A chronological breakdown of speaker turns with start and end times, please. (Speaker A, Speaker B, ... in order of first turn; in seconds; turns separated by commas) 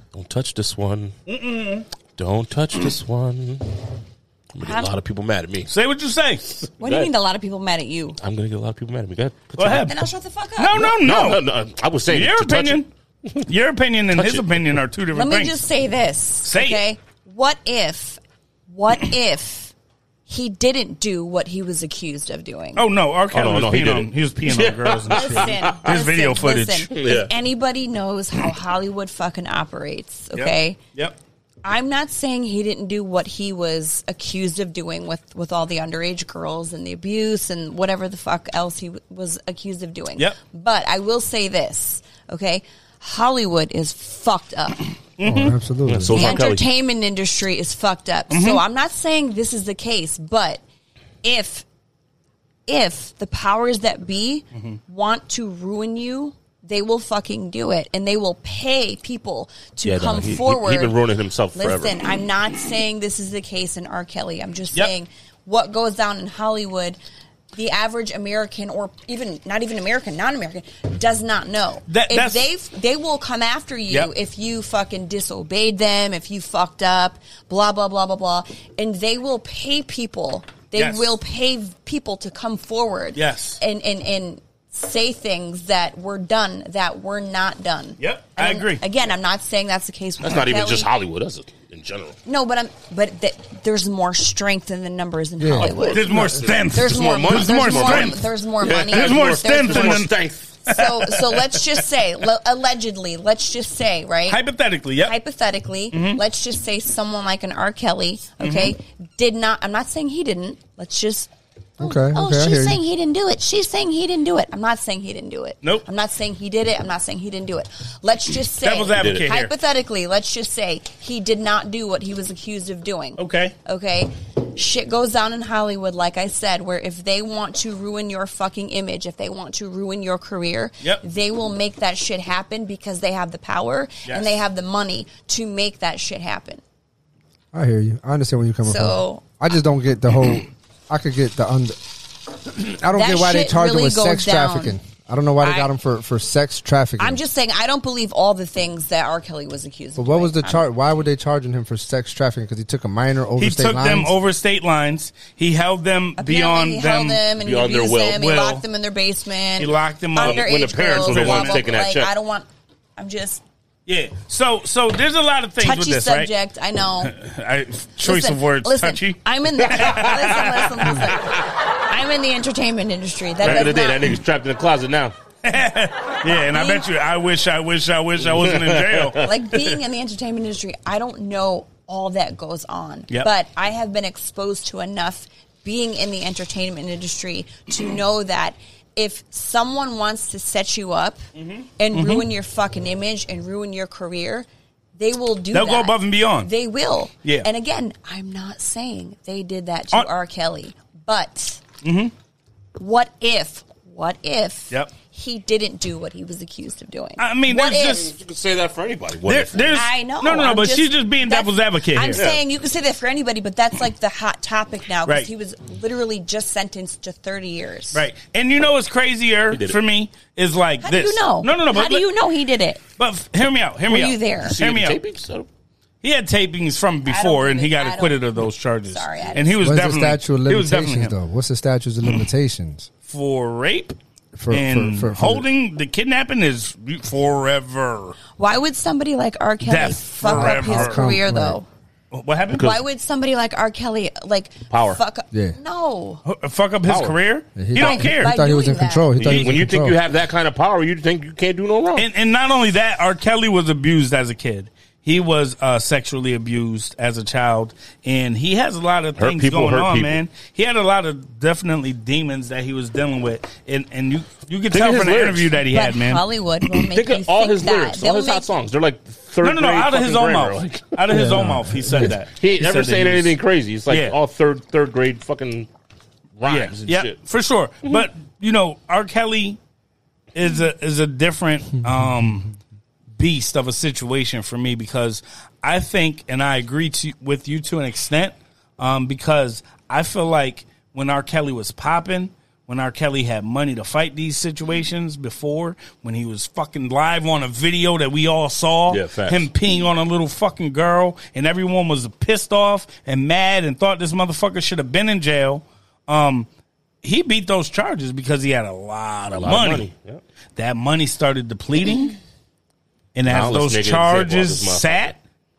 Speaker A: 0.1-1.2, Speaker B: 1.3-1.9, Speaker A: 2.2-3.8, Speaker A: 4.5-5.7, Speaker C: 4.6-4.9, Speaker B: 5.7-6.5, Speaker A: 6.7-7.1, Speaker C: 6.8-8.2, Speaker A: 8.2-9.9, Speaker B: 9.6-9.9, Speaker C: 9.9-10.9, Speaker B: 10.6-11.4, Speaker A: 10.8-13.3, Speaker B: 12.1-12.9, Speaker B: 13.4-15.5, Speaker A: 14.1-14.5, Speaker C: 15.1-19.7, Speaker B: 16.4-16.8, Speaker C: 20.3-22.8, Speaker B: 22.8-26.9, Speaker A: 23.3-25.9, Speaker C: 25.1-30.8, Speaker A: 26.9-27.3, Speaker B: 30.3-31.2, Speaker C: 31.6-44.9, Speaker B: 45.2-45.6, Speaker D: 45.2-46.4, Speaker A: 45.9-46.6, Speaker C: 46.1-50.6, Speaker B: 48.3-48.6, Speaker C: 51.2-51.6, Speaker C: 52.7-61.0, Speaker A: 59.8-62.0, Speaker C: 61.5-67.0, Speaker C: 67.5-90.9, Speaker B: 71.9-72.5, Speaker B: 80.8-81.1, Speaker B: 83.2-83.6, Speaker B: 88.0-88.8, Speaker A: 90.2-92.2, Speaker C: 92.3-96.1, Speaker D: 95.4-96.4, Speaker A: 95.6-100.5, Speaker B: 95.9-98.2, Speaker C: 96.7-100.1, Speaker B: 98.8-100.2, Speaker C: 100.7-104.4, Speaker B: 100.7-101.7, Speaker B: 104.3-105.2, Speaker C: 105.0-136.6, Speaker B: 105.9-106.2, Speaker B: 108.4-108.7, Speaker D: 111.8-112.8, Speaker B: 118.6-119.5, Speaker A: 119.0-119.3, Speaker B: 123.2-123.5, Speaker B: 134.1-134.3, Speaker D: 137.5-141.8, Speaker C: 138.6-139.2, Speaker D: 142.3-147.2, Speaker C: 142.9-144.8, Speaker C: 145.4-145.7, Speaker C: 147.0-150.7, Speaker D: 150.0-154.1, Speaker B: 153.4-157.2, Speaker C: 156.2-162.5, Speaker A: 157.4-158.3, Speaker B: 158.2-158.6, Speaker B: 159.6-161.7, Speaker A: 160.2-162.1, Speaker C: 163.0-163.4, Speaker B: 163.9-166.3, Speaker C: 165.6-167.1, Speaker B: 167.0-170.9, Speaker C: 168.0-174.2, Speaker A: 169.7-170.0, Speaker A: 173.4-175.2, Speaker B: 175.4-179.2, Speaker C: 176.5-176.9, Speaker A: 178.3-179.6, Speaker C: 179.2-191.2, Speaker B: 191.4-192.3, Speaker C: 191.8-194.5, Speaker C: 195.0-201.6, Speaker B: 195.5-196.5, Speaker B: 201.8-202.1, Speaker C: 202.8-208.1, Speaker B: 207.2-208.1, Speaker A: 207.9-209.8, Speaker B: 209.2-212.2, Speaker C: 209.7-218.0, Speaker A: 212.2-212.4, Speaker B: 217.9-222.1, Speaker A: 219.5-219.8, Speaker C: 220.8-222.8, Speaker B: 223.0-225.0, Speaker C: 223.9-224.6, Speaker A: 224.4-225.5, Speaker B: 226.0-231.2, Speaker C: 227.1-229.7, Speaker D: 229.6-232.9, Speaker B: 233.1-234.0, Speaker D: 234.3-235.5, Speaker B: 234.5-238.2, Speaker C: 238.4-241.7, Speaker B: 239.7-241.1, Speaker D: 240.3-241.6, Speaker B: 242.1-242.7, Speaker A: 242.5-242.8, Speaker C: 242.6-246.2, Speaker A: 244.7-245.0, Speaker D: 245.3-245.6, Speaker B: 246.2-248.3, Speaker A: 246.9-247.2, Speaker D: 247.6-250.0, Speaker C: 247.8-249.4, Speaker A: 249.2-252.1, Speaker B: 252.0-266.2, Speaker A: 259.2-260.2, Speaker A: 264.7-265.5, Speaker C: 265.7-268.5, Speaker A: 266.7-275.7, Speaker B: 269.4-273.4, Speaker D: 271.1-272.1, Speaker B: 273.9-274.2, Speaker A: 276.4-277.2, Speaker B: 276.4-279.6, Speaker B: 280.3-282.6, Speaker B: 283.1-306.5, Speaker A: 298.9-299.5, Speaker B: 307.0-309.9, Speaker A: 309.4-310.2, Speaker B: 310.6-312.2, Speaker B: 313.1-315.2, Speaker A: 313.3-315.1